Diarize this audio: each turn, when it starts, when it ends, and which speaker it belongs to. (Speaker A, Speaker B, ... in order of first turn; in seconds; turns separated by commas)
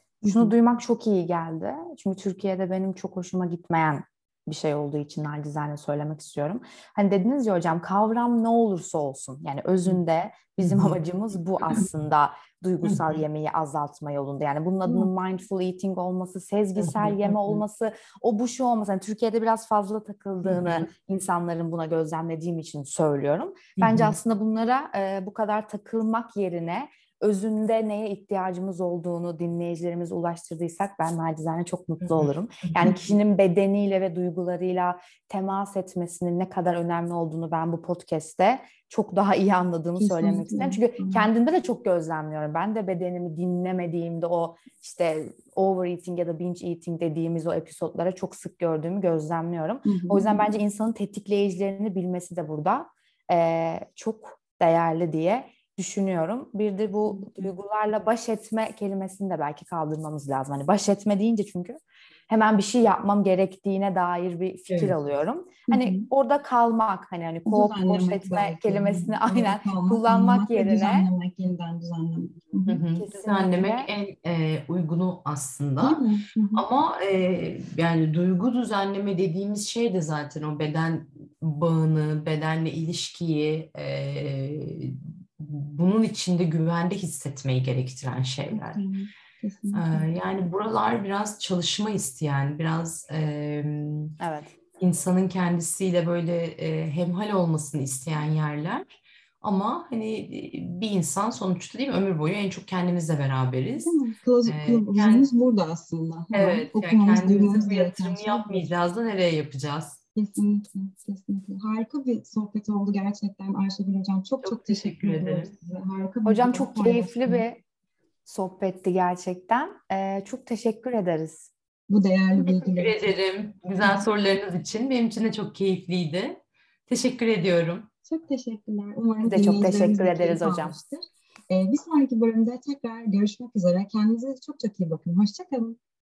Speaker A: 0.2-71.1, Speaker B: 10.6-10.9, Speaker B: 12.8-13.2, Speaker B: 16.8-17.6, Speaker B: 20.4-20.9, Speaker B: 23.8-24.1, Speaker B: 32.0-32.9, Speaker C: 40.0-41.3, Speaker C: 49.9-50.3, Speaker B: 64.7-65.0, Speaker C: 65.7-66.1, Speaker C: 67.5-72.8, Speaker B: 72.7-76.0, Speaker A: 73.0-73.9, Speaker C: 75.8-76.7, Speaker B: 76.5-88.8, Speaker C: 88.5-90.1, Speaker B: 89.7-94.2, Speaker A: 94.2-94.5, Speaker B: 94.8-98.9, Speaker B: 99.4-105.3, Speaker C: 103.8-108.7, Speaker B: 106.3-110.0, Speaker C: 110.2-117.5, Speaker B: 114.4-115.5, Speaker A: 116.3-117.6, Speaker A: 118.3-121.5, Speaker C: 121.9-123.2, Speaker B: 122.4-127.9, Speaker C: 128.1-135.8, Speaker A: 129.2-130.8